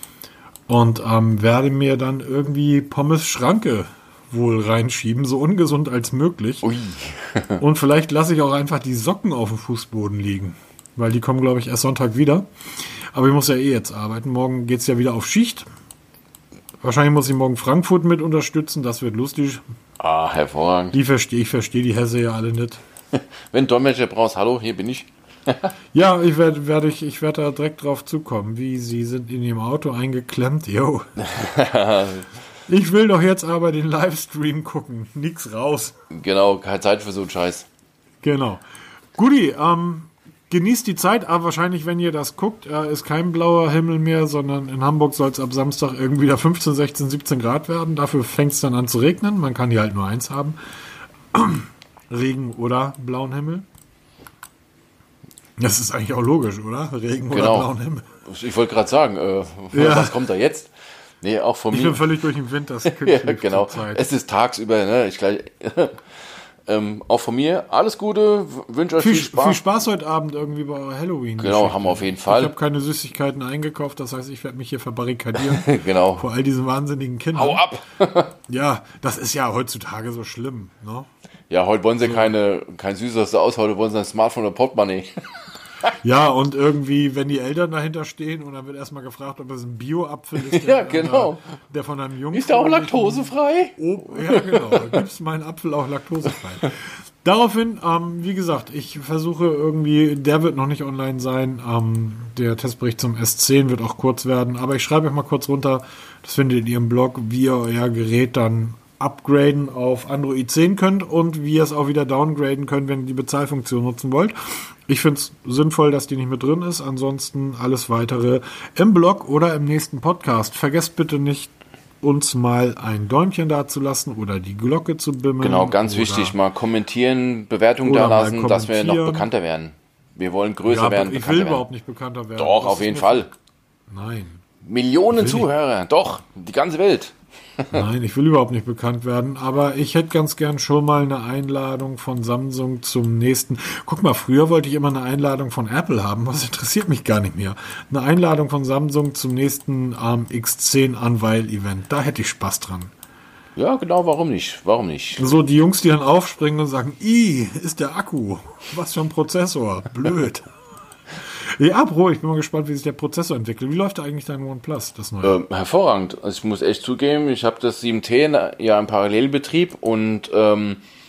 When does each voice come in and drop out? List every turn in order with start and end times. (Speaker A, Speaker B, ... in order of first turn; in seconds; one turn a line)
Speaker A: 0.7-6.6
Speaker B: 6.6-7.6
Speaker A: 7.6-15.7
Speaker A: 16.8-19.6
Speaker B: 20.0-21.0
Speaker A: 20.9-22.8
Speaker B: 23.1-25.7
Speaker A: 25.9-31.1
Speaker B: 31.2-32.3
Speaker A: 32.7-36.0
Speaker B: 36.1-37.7
Speaker A: 38.2-38.6
Speaker A: 39.1-50.6
Speaker A: 51.3-53.7
Speaker A: 55.6-58.1
Speaker B: 57.3-57.7
Speaker B: 58.2-62.1
Speaker A: 59.7-60.2
Speaker A: 61.7-64.0
Speaker B: 62.9-66.0
Speaker B: 66.7-69.6
Speaker A: 69.0-77.6
Speaker B: 71.4-72.5
Speaker B: 75.5-76.2
Speaker B: 77.3-78.3
Speaker A: 78.5-81.1
Speaker B: 81.5-85.1
Speaker A: 86.0-126.3
Speaker B: 90.4-91.4
Speaker B: 92.3-95.0
Speaker B: 125.4-131.7
Speaker A: 127.8-129.3
Speaker A: 130.7-133.3
Speaker B: 132.4-133.3
Speaker A: 133.9-134.4
Speaker B: 134.6-137.8
Speaker A: 135.1-135.5
Speaker A: 137.7-152.9
Speaker B: 153.6-155.2
Speaker A: 155.2-160.5
Speaker A: 161.3-165.4
Speaker B: 165.2-170.8